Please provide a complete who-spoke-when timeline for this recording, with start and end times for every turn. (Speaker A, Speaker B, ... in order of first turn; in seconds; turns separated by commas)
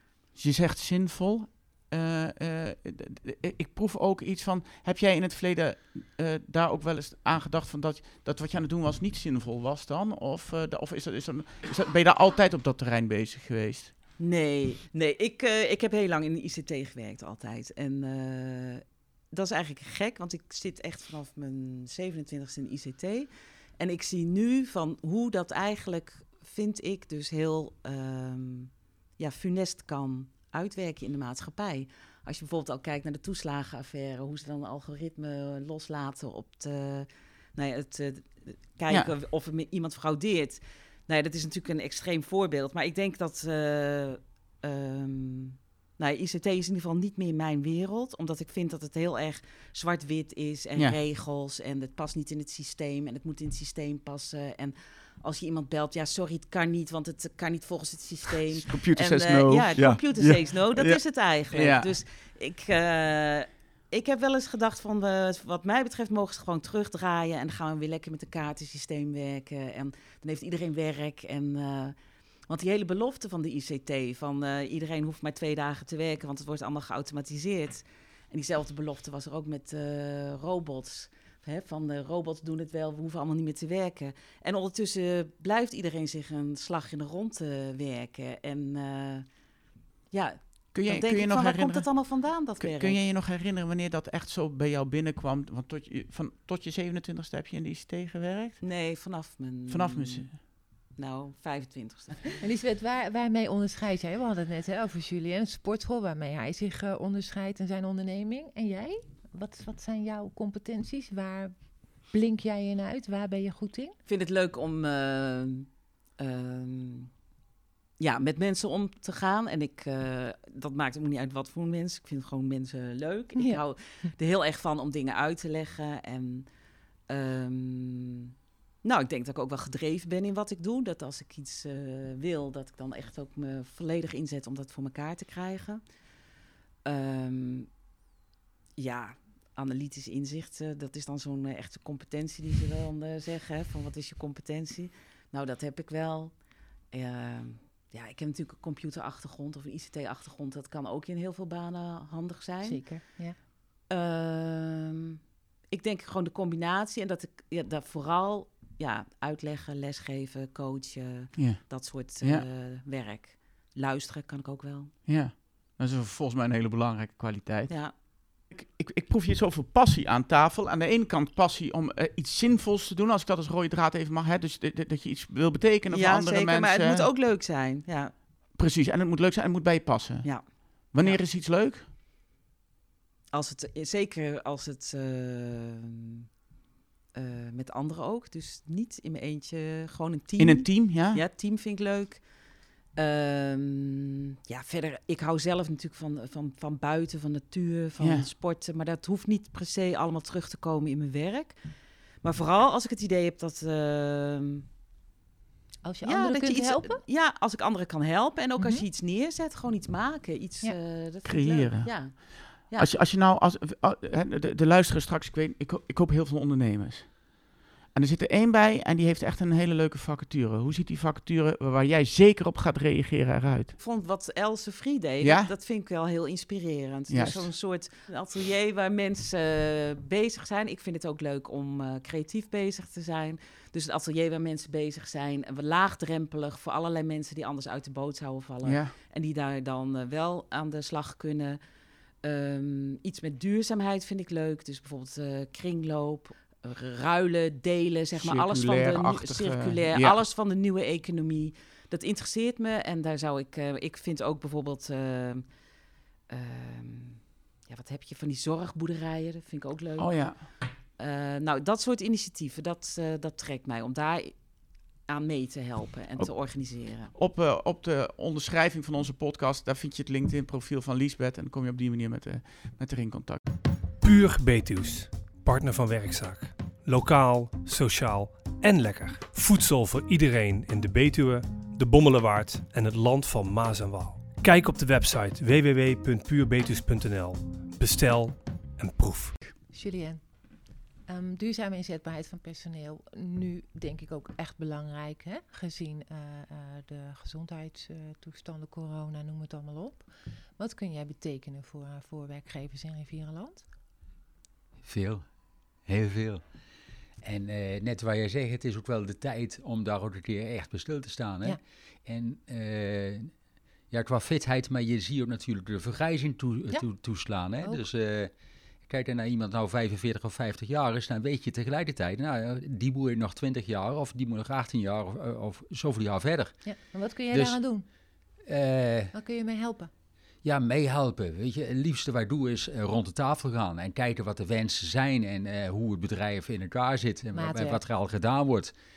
Speaker A: 0.3-13.9, Speaker B: 14.2-72.0, Speaker A: 58.7-61.0, Speaker A: 61.5-61.9, Speaker B: 72.5-89.3, Speaker B: 90.1-93.0, Speaker A: 90.7-98.6, Speaker B: 98.6-102.4, Speaker A: 99.7-100.3, Speaker C: 102.4-114.0, Speaker B: 114.0-117.1, Speaker B: 118.0-126.5, Speaker B: 127.1-135.8, Speaker B: 136.8-137.7, Speaker B: 138.8-153.1, Speaker C: 152.6-153.4, Speaker B: 153.8-164.9, Speaker A: 161.3-161.7, Speaker A: 165.1-177.0, Speaker B: 167.7-168.0, Speaker B: 175.9-178.2, Speaker A: 178.5-181.8, Speaker B: 180.2-181.2, Speaker B: 183.3-186.2, Speaker B: 187.1-204.6, Speaker A: 190.4-191.2, Speaker A: 198.0-198.3, Speaker C: 205.8-207.0, Speaker B: 206.0-213.0, Speaker C: 208.6-208.8, Speaker A: 211.2-223.8, Speaker B: 223.8-241.6, Speaker A: 225.2-225.5, Speaker A: 227.1-227.5, Speaker A: 238.6-238.9, Speaker B: 242.2-255.6, Speaker A: 248.2-250.2, Speaker B: 256.3-267.1, Speaker A: 260.0-260.4, Speaker A: 267.1-273.4, Speaker D: 274.0-289.5, Speaker C: 289.7-303.6, Speaker E: 304.8-305.3, Speaker E: 305.9-306.4, Speaker E: 307.2-313.3, Speaker E: 313.9-318.3, Speaker E: 318.9-326.6, Speaker C: 326.6-327.8, Speaker E: 327.3-327.6, Speaker E: 328.4-329.1, Speaker C: 329.1-329.9, Speaker E: 330.4-338.7, Speaker C: 337.3-337.8